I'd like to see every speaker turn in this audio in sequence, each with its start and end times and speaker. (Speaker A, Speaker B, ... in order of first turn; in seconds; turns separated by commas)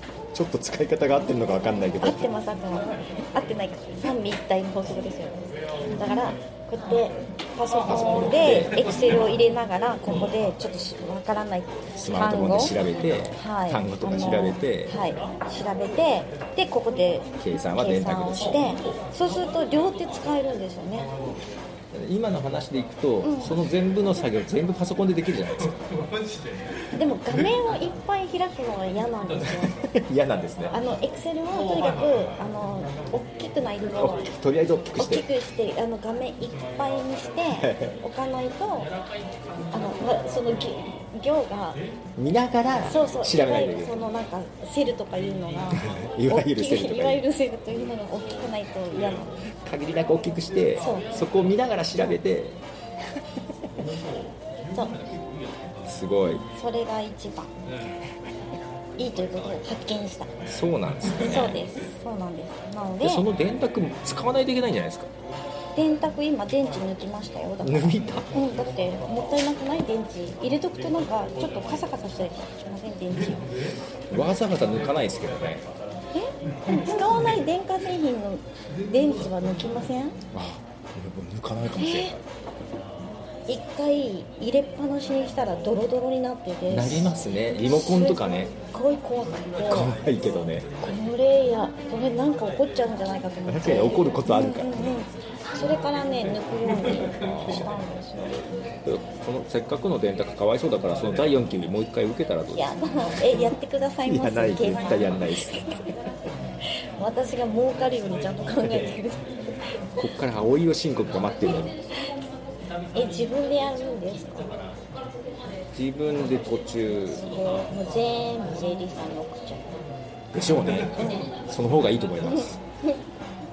Speaker A: 0.3-2.3, Speaker B: 2.0-12.8, Speaker A: 7.8-8.9, Speaker A: 11.9-14.9, Speaker B: 13.4-21.1, Speaker A: 17.4-18.6, Speaker A: 21.9-25.8, Speaker B: 23.2-23.6, Speaker B: 27.0-29.8, Speaker A: 29.8-30.8, Speaker B: 30.7-34.3, Speaker A: 34.0-35.2, Speaker B: 35.0-38.9, Speaker A: 37.6-38.0, Speaker B: 39.7-41.8, Speaker A: 42.2-44.0, Speaker B: 42.8-49.4, Speaker A: 45.8-47.2, Speaker A: 49.6-52.6, Speaker B: 50.8-51.1, Speaker B: 54.7-55.0, Speaker A: 55.8-56.4, Speaker B: 56.5-57.5, Speaker B: 59.0-60.3, Speaker A: 60.4-61.6, Speaker B: 61.2-63.3, Speaker A: 63.0-65.1, Speaker B: 65.8-73.6, Speaker A: 67.6-68.3, Speaker A: 74.1-75.7, Speaker B: 76.1-80.2, Speaker A: 80.3-82.2, Speaker B: 81.8-82.2, Speaker B: 83.5-89.9, Speaker A: 86.7-88.5, Speaker A: 89.7-90.7, Speaker B: 90.8-98.5, Speaker A: 93.5-95.0, Speaker A: 97.2-97.7, Speaker A: 98.8-102.7, Speaker B: 102.5-105.7, Speaker A: 104.0-105.8, Speaker B: 106.7-109.3, Speaker A: 110.0-111.8, Speaker B: 113.0-114.6, Speaker A: 115.7-117.2, Speaker B: 117.1-119.7, Speaker A: 120.3-122.6, Speaker B: 121.0-121.3, Speaker B: 122.2-123.0